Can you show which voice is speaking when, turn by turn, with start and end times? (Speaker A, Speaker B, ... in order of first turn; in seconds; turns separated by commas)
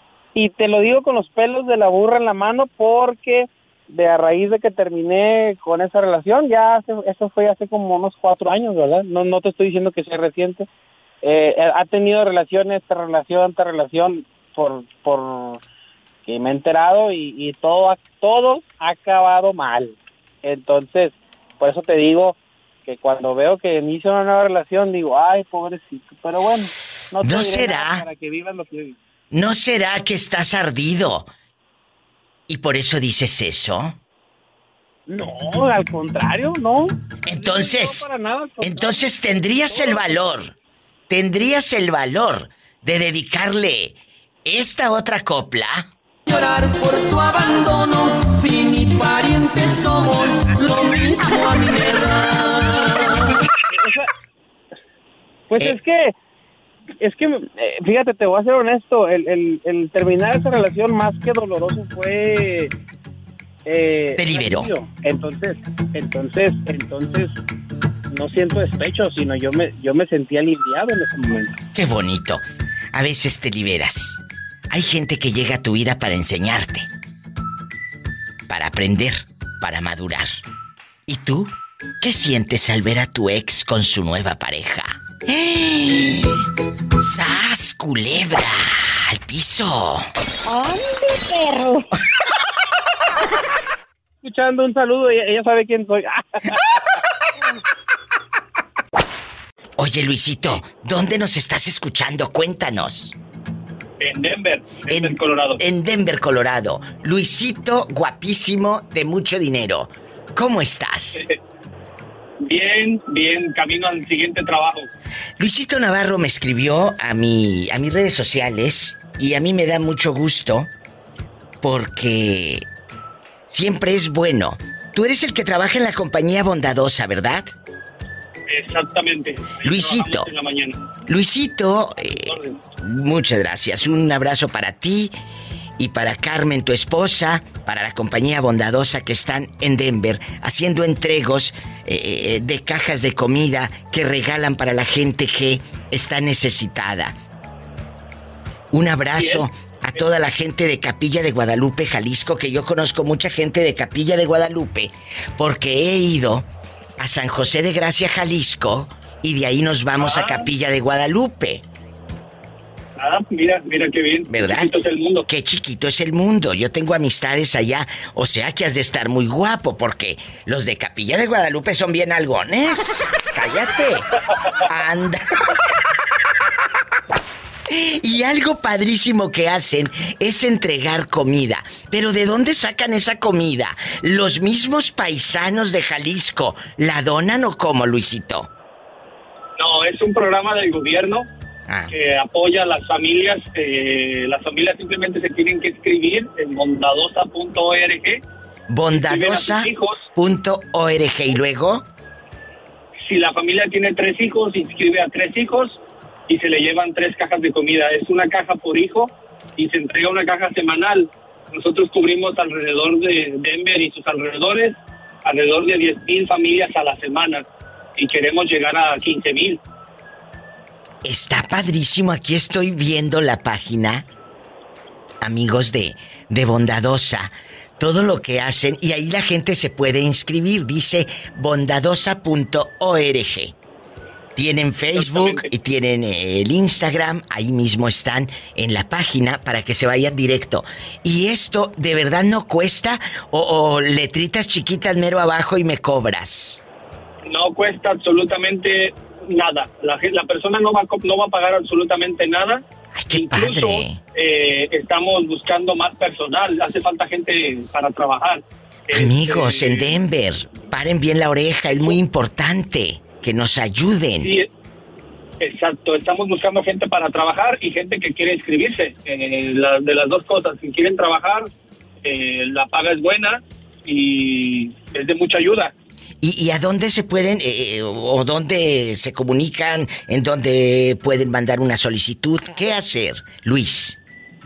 Speaker A: 0.3-10.7, Speaker A: 11.2-15.6, Speaker A: 16.2-28.9, Speaker B: 27.2-28.0, Speaker B: 29.3-31.3, Speaker B: 32.5-34.0, Speaker A: 35.1-40.2, Speaker B: 37.2-38.0, Speaker B: 38.6-40.5, Speaker B: 41.1-45.9, Speaker C: 46.3-53.2, Speaker A: 53.7-54.1, Speaker A: 55.5-56.1, Speaker A: 57.0-62.7, Speaker A: 63.6-67.3, Speaker B: 64.2-64.7, Speaker A: 68.1-71.5, Speaker B: 71.7-76.9, Speaker B: 78.5-80.4, Speaker B: 81.1-86.4, Speaker B: 87.0-90.1, Speaker A: 94.2-96.8, Speaker B: 99.8-103.2, Speaker D: 104.0-105.6, Speaker B: 104.9-111.2, Speaker D: 112.4-114.9, Speaker B: 115.4-120.7, Speaker B: 121.6-122.6, Speaker B: 123.5-127.5, Speaker D: 128.5-130.8, Speaker B: 129.6-130.3, Speaker B: 131.1-135.1, Speaker D: 132.0-132.5, Speaker B: 135.8-147.1, Speaker B: 148.7-156.4, Speaker D: 149.2-150.0, Speaker B: 157.0-161.6, Speaker D: 160.0-160.5, Speaker D: 163.0-165.2, Speaker B: 164.3-164.7, Speaker B: 165.3-174.1, Speaker B: 174.7-175.2, Speaker B: 177.7-188.5, Speaker D: 189.6-191.3, Speaker B: 191.7-191.9, Speaker D: 191.9-198.2, Speaker B: 198.7-201.8, Speaker D: 199.0-200.1, Speaker D: 203.1-217.4, Speaker D: 218.0-219.6, Speaker B: 221.0-224.0, Speaker B: 225.2-233.5, Speaker B: 234.3-246.6, Speaker D: 234.9-235.4, Speaker D: 247.2-260.0, Speaker B: 252.9-254.0, Speaker B: 258.9-264.4, Speaker D: 264.2-264.5, Speaker D: 265.4-271.5, Speaker D: 272.0-275.7, Speaker B: 276.2-284.0